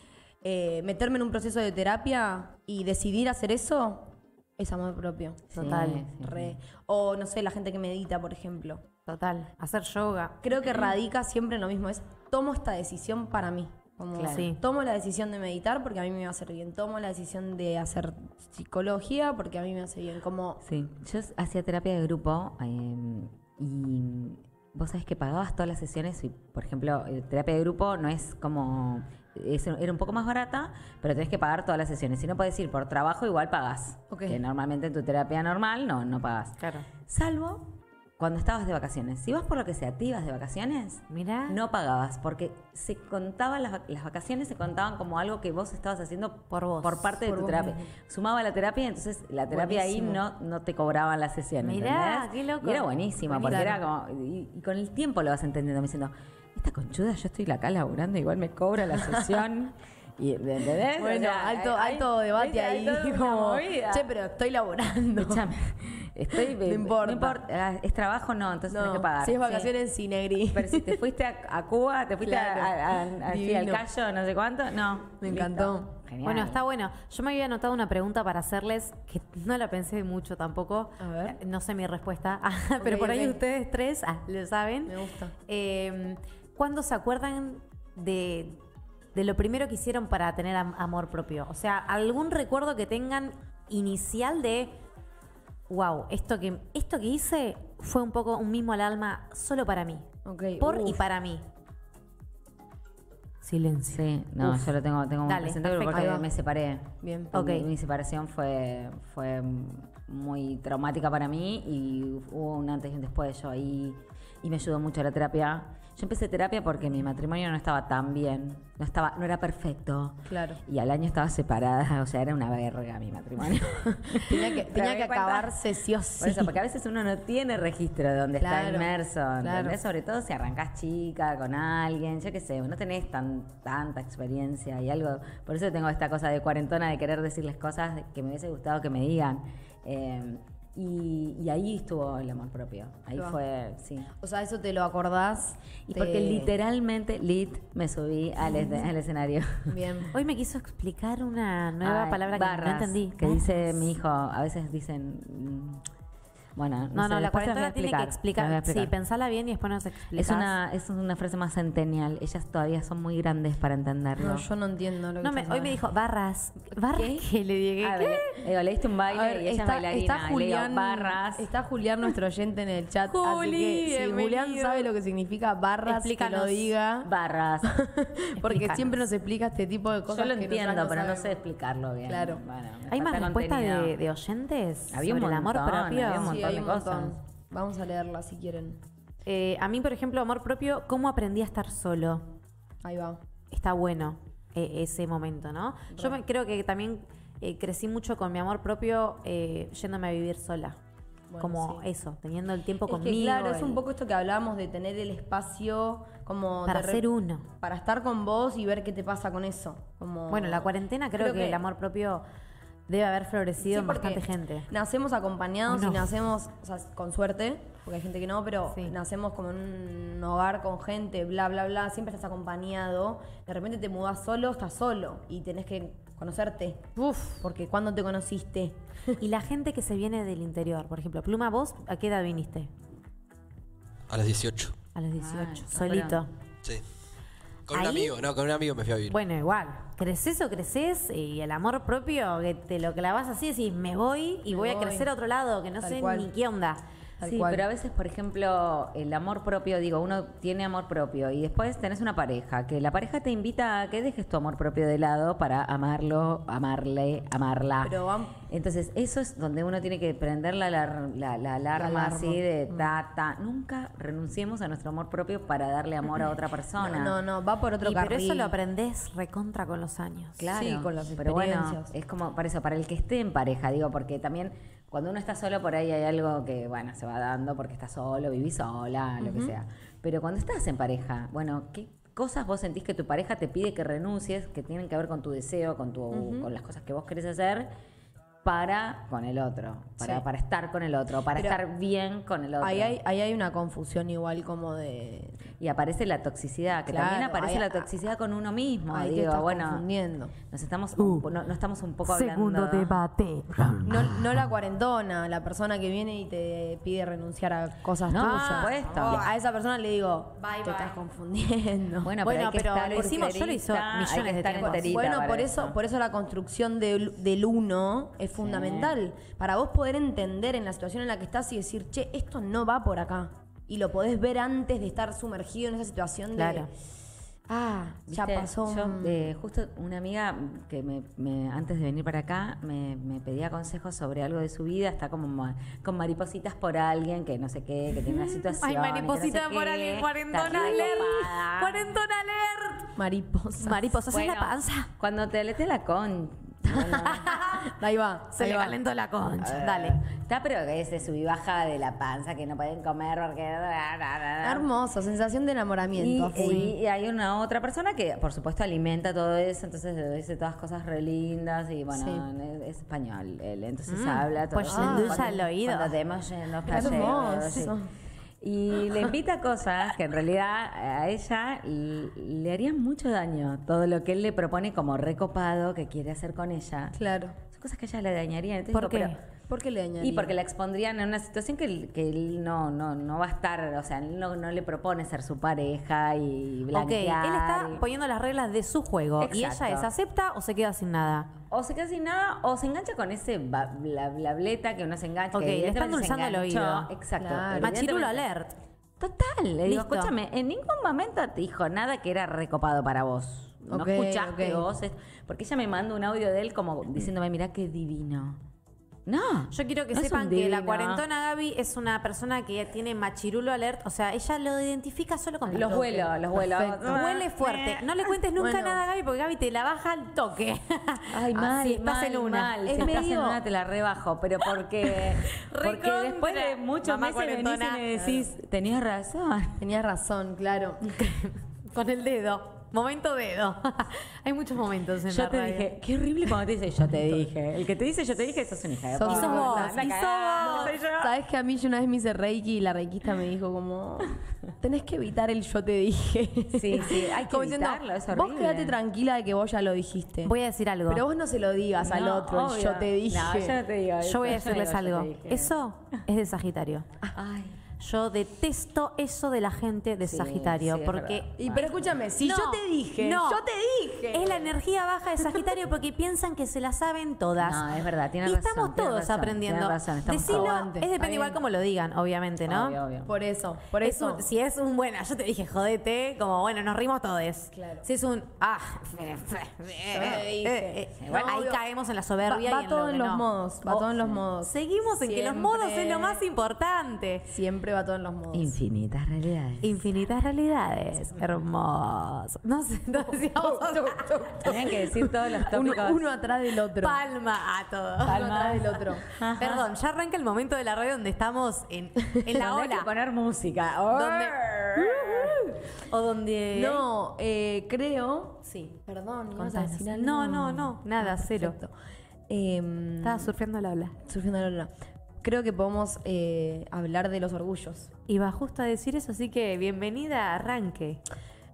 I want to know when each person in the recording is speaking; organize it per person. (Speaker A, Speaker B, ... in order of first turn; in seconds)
Speaker A: 0.4-8.8, 10.4-20.6, 34.1-34.4, 47.2-47.9, 49.5-50.2, 53.4-53.8, 59.0-59.4, 61.0-65.5, 66.3-67.4, 68.7-71.0, 72.2-73.8, 75.2-75.9, 81.0-81.4, 82.8-83.4, 84.8-85.3, 100.2-101.0, 107.0-107.3, 120.3-120.6, 124.0-126.5, 128.4-128.9, 129.4-129.8, 144.2-146.5, 149.7-150.1, 164.2-165.8, 169.1-177.1, 177.6-181.4, 182.1-182.4, 186.2-188.8, 192.8-193.2, 195.9-196.2, 201.3-201.8, 202.9-207.1, 207.6-211.6, 213.6-226.9, 227.4-229.2, 244.5-245.1, 245.8-246.3, 247.2-247.6, 257.8-258.4, 261.8-262.9, 266.8-268.6, 270.5-271.9, 279.2-279.6, 286.1-286.5, 291.3-291.6, 292.6-295.4, 296.9-297.9, 298.9-300.4, 303.9-312.1, 313.0-313.3, 314.6-326.7, 327.5-329.3, 343.0-343.9, 346.7-348.8, 354.4-356.7, 361.9-362.2, 364.6-365.4, 366.7-367.9, 376.9-377.4, 379.5-380.3, 397.2-397.7, 403.7-404.6, 415.5-417.0, 418.4-418.8, 422.7-423.4, 429.6-430.9, 438.9-439.8, 440.5-450.3, 450.9-453.6, 461.4-464.6, 470.1-471.4, 473.1-474.2, 477.5-477.9, 479.9-481.6, 482.2-486.2, 487.3-488.6, 493.1-497.0, 498.1-499.1, 506.5-511.7, 512.3-513.3, 514.0-517.9
Speaker B: 5.5-6.6, 14.1-14.5, 20.6-64.1, 65.2-69.7, 70.5-76.6, 103.9-125.5, 126.2-144.1, 145.9-149.9, 151.8-155.8, 156.6-158.9, 160.2-164.5, 166.9-167.3, 167.8-171.4, 177.0-177.8, 180.1-184.0, 184.9-187.2, 235.2-236.2, 247.2-258.0, 258.5-267.2, 270.4-287.7, 288.4-292.9, 295.6-299.9, 300.4-303.0, 308.1-309.2, 312.0-315.8, 318.4-318.9, 328.1-341.9, 344.1-347.4, 349.4-354.7, 355.9-367.8, 368.4-377.0, 377.5-379.2, 380.0-387.9, 389.2-389.9, 391.5-398.3, 399.0-408.4, 409.1-411.1, 415.5-418.0, 421.1-429.6, 435.1-441.1, 446.5-448.8, 451.8-455.6, 457.1-457.6, 460.0-461.9, 467.4-470.6, 472.4-473.1, 479.2-480.3, 481.0-481.4, 488.3-489.8, 494.4-496.0, 498.1-499.7, 502.3-505.4
Speaker C: 5.5-6.0, 9.1-10.4, 14.3-14.6, 36.6-36.9, 41.1-41.6, 46.5-47.1, 51.6-53.8, 76.2-85.0, 85.5-88.6, 89.2-94.7, 95.7-100.1, 100.6-101.4, 103.4-104.7, 105.2-106.3, 107.3-107.7, 150.1-153.6, 156.9-160.5, 165.2-168.3, 173.1-174.9, 175.9-176.7, 178.4-179.0, 182.9-186.3, 189.2-192.3, 193.5-200.8, 201.4-203.8, 206.7-207.5, 210.3-212.2, 212.9-214.7, 215.7-216.1, 227.0-227.4, 229.2-232.7, 234.9-236.3, 237.7-238.2, 239.1-246.8, 267.8-270.5, 301.0-301.3, 302.1-304.3, 308.2-309.3, 310.4-311.0, 312.2-314.9, 326.4-326.7, 338.1-343.0, 343.6-344.9, 346.9-347.7, 348.4-350.0, 356.3-356.7, 363.9-365.9, 366.7-367.1, 378.7-379.2, 386.7-391.3, 395.3-396.9, 397.5-398.5, 399.7-400.1, 409.5-416.0, 416.8-423.0, 424.8-428.3, 430.9-435.7, 439.0-440.8, 450.2-451.0, 454.0-456.9, 457.8-461.6, 462.2-472.8, 473.8-487.3, 489.6-494.5, 496.6-498.7, 499.4-502.9, 503.9-506.9, 509.4-511.6, 513.0-514.0, 518.1-521.0
Speaker D: 234.1-234.8, 237.7-239.2